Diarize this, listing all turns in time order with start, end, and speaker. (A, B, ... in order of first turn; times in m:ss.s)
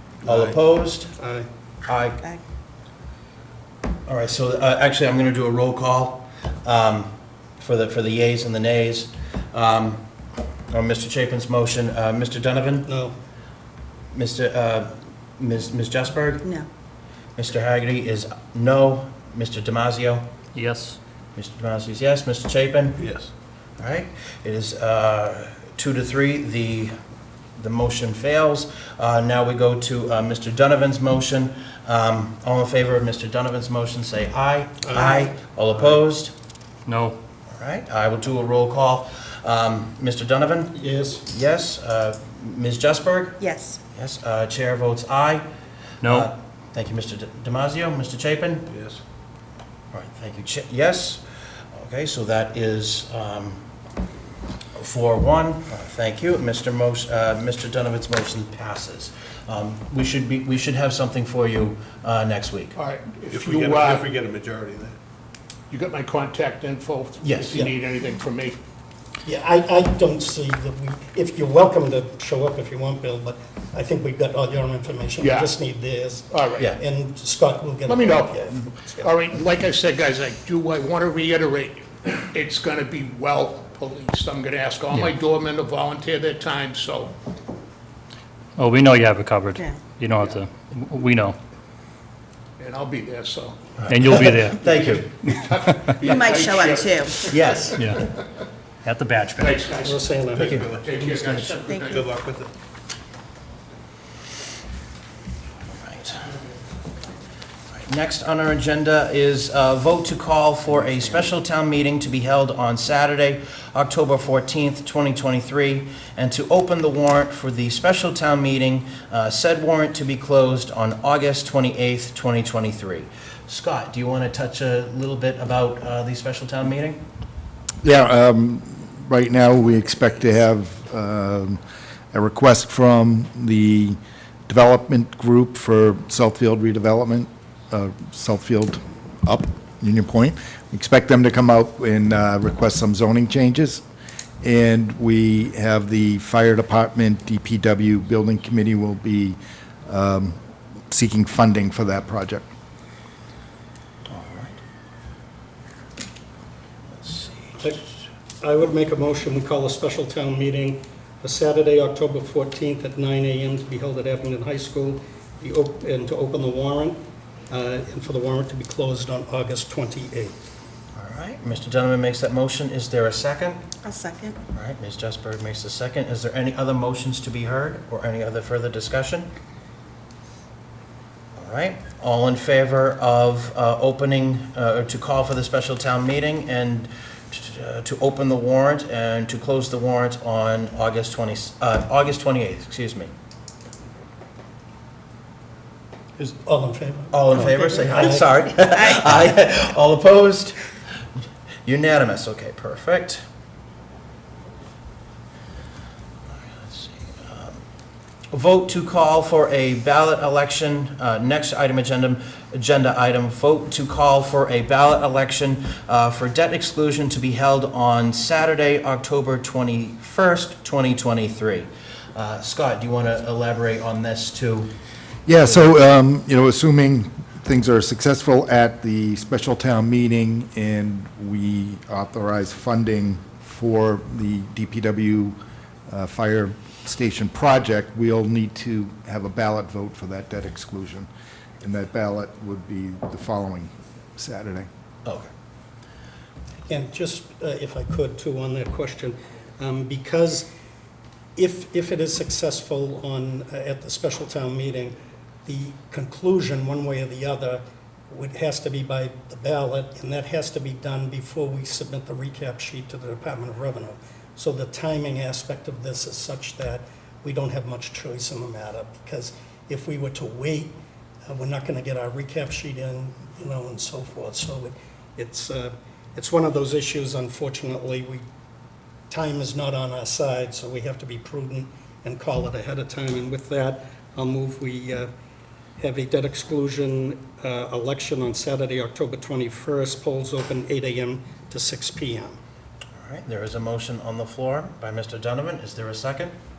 0:00.2-0:00.6 A
0:00.2-0:01.1 B
0:01.2-0:01.4 C
0:01.8-0:02.2 B
0:04.1-0:10.0 B
0:10.7-0:12.9 B
0:12.8-0:13.1 C
0:14.1-0:16.5 B
0:17.4-0:20.2 B
0:20.5-0:21.0 D
0:21.4-0:23.0 B
0:23.0-0:23.3 A
0:23.8-0:26.9 B
0:27.6-0:36.3 B
0:34.9-0:35.2 C
0:36.9-0:37.2 D
0:37.5-0:43.4 B
0:40.8-0:41.2 C
0:43.4-0:43.8 E
0:43.9-0:45.4 B
0:46.0-0:46.3 D
0:46.0-0:48.7 B
0:48.7-0:49.0 A
0:49.9-0:51.2 B
0:51.7-0:53.6 B
0:54.7-1:02.7 B
1:02.8-1:04.0 F
1:03.1-1:04.9 A
1:05.7-1:08.6 F
1:07.2-1:07.7 B
1:09.2-1:19.2 C
1:17.9-1:18.3 F
1:19.1-1:19.6 E
1:19.2-1:27.1 F
1:24.9-1:25.2 D
1:28.6-1:31.4 D
1:29.5-1:29.8 E
1:32.7-1:33.6 F
1:33.8-1:35.1 B
1:33.9-1:34.6 D
1:35.2-1:36.0 D
1:35.4-1:37.3 E
1:37.3-1:38.0 B
1:37.8-1:38.0 D
1:38.8-1:39.6 D
1:39.4-1:40.1 F
1:39.7-1:39.9 E
1:39.8-1:40.6 C
1:40.3-1:42.5 A
1:40.4-1:40.7 B
1:40.8-1:42.0 E
1:40.9-1:42.0 F
1:45.8-1:46.3 B
1:47.8-2:07.0 B
2:07.8-2:11.6 G
2:12.1-2:23.8 G
2:24.4-2:30.4 G
2:30.9-2:32.5 G
2:34.1-2:34.6 B
2:37.0-2:37.7 B
2:38.4-2:47.0 C
2:47.5-2:50.3 C
2:50.9-2:53.6 B
2:53.8-2:54.4 E
2:54.5-2:59.3 B
3:01.4-3:13.1 B
3:16.2-3:18.3 C
3:17.1-3:20.6 B
3:21.6-3:23.2 B
3:26.4-3:27.6 B
3:28.3-3:44.7 B
3:45.2-3:55.4 G
3:55.9-4:01.1 G
4:01.6-4:04.7 G
4:05.0-4:05.3 B
4:06.7-4:10.5 C
4:11.4-4:30.7 C
4:31.3-4:38.2 C
4:39.1-4:45.1 C
4:45.8-4:52.4 C
4:53.0-4:56.3 B